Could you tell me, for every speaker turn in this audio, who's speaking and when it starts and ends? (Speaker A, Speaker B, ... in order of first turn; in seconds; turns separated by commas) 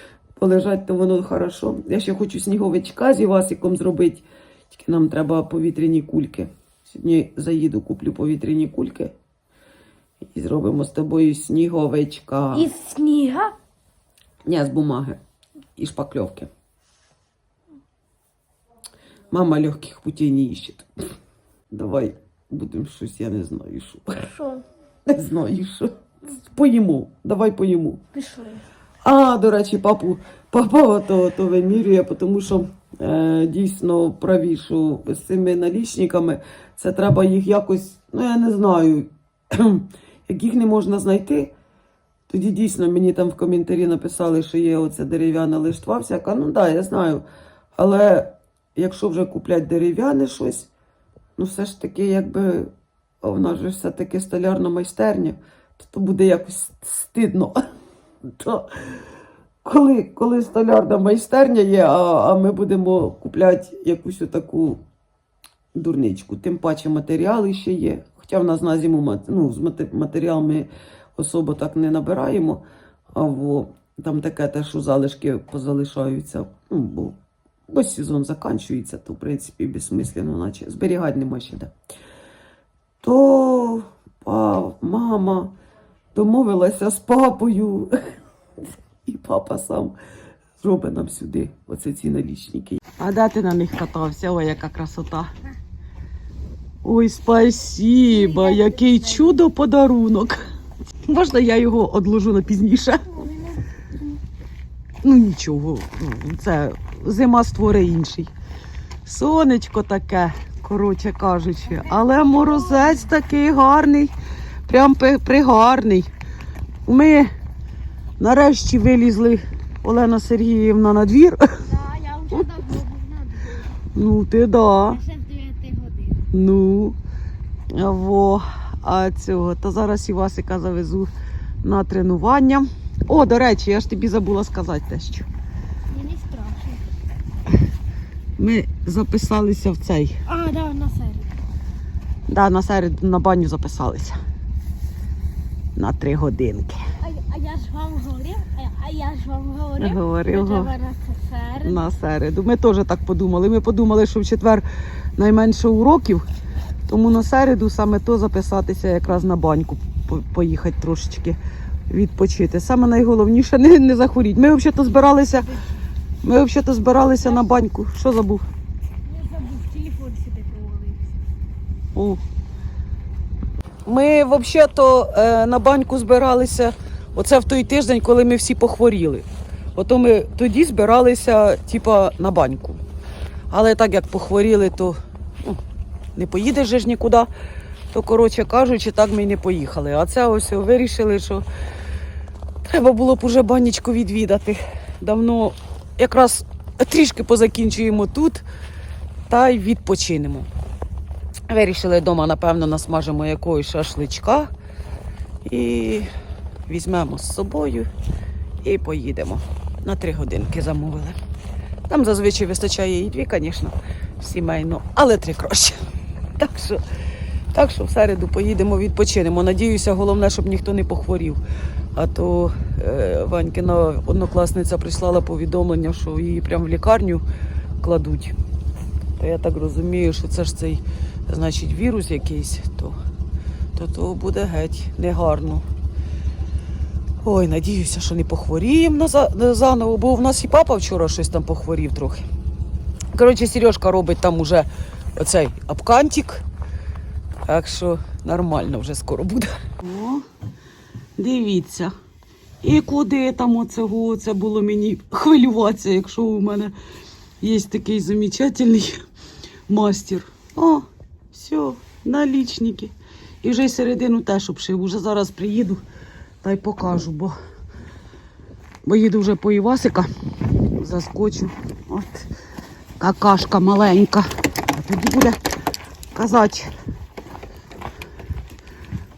Speaker A: 0.4-9.1, Speaker A: 10.2-12.7, Speaker B: 12.5-13.5, Speaker A: 14.4-15.2, Speaker A: 15.8-16.5, Speaker A: 19.3-20.9, Speaker A: 21.7-24.3, Speaker B: 24.3-24.6, Speaker A: 25.1-28.0, Speaker B: 28.1-28.6, Speaker A: 29.0-41.5, Speaker A: 42.3-47.2, Speaker A: 47.7-50.7, Speaker A: 51.4-52.7, Speaker A: 53.2-57.6, Speaker A: 58.3-58.8, Speaker A: 59.6-64.8, Speaker A: 65.7-72.6, Speaker A: 73.1-81.7, Speaker A: 83.0-85.5, Speaker A: 86.1-88.0, Speaker A: 89.0-89.9, Speaker A: 90.6-95.3, Speaker A: 96.8-100.4, Speaker B: 98.1-98.7, Speaker A: 101.0-103.3, Speaker A: 105.0-108.3, Speaker A: 109.0-114.1, Speaker B: 111.8-112.9, Speaker A: 114.7-116.1, Speaker A: 116.8-117.3, Speaker A: 118.2-121.6, Speaker B: 121.7-123.6, Speaker A: 123.9-125.0, Speaker B: 125.0-126.1, Speaker A: 126.3-127.0, Speaker A: 127.7-131.1, Speaker A: 131.6-135.3, Speaker B: 135.9-136.8, Speaker A: 138.4-140.2, Speaker B: 140.3-141.3, Speaker A: 142.3-144.2, Speaker A: 145.7-146.8, Speaker B: 147.0-151.7, Speaker A: 149.8-150.7, Speaker A: 151.6-156.3, Speaker A: 156.9-161.4, Speaker A: 161.9-165.6, Speaker A: 166.2-168.4, Speaker B: 169.1-171.0, Speaker A: 171.9-172.2, Speaker A: 173.8-182.8, Speaker A: 183.5-185.6, Speaker A: 186.1-187.3, Speaker A: 187.9-191.4, Speaker A: 192.6-198.4, Speaker A: 199.3-200.5, Speaker A: 201.5-204.5, Speaker A: 205.4-206.1, Speaker A: 206.7-207.9, Speaker A: 208.6-211.2, Speaker A: 211.9-215.8, Speaker A: 216.4-216.8, Speaker A: 217.5-221.4, Speaker A: 221.9-227.2, Speaker A: 227.8-228.3, Speaker A: 229.2-233.0, Speaker A: 233.7-235.7, Speaker A: 237.2-242.2, Speaker A: 243.1-246.4, Speaker A: 247.4-250.2, Speaker A: 251.2-251.9, Speaker A: 252.6-256.7, Speaker A: 257.4-259.0, Speaker A: 259.7-265.8, Speaker A: 266.4-267.4, Speaker A: 268.8-270.1, Speaker A: 270.6-272.3, Speaker A: 273.0-275.4, Speaker A: 276.1-276.7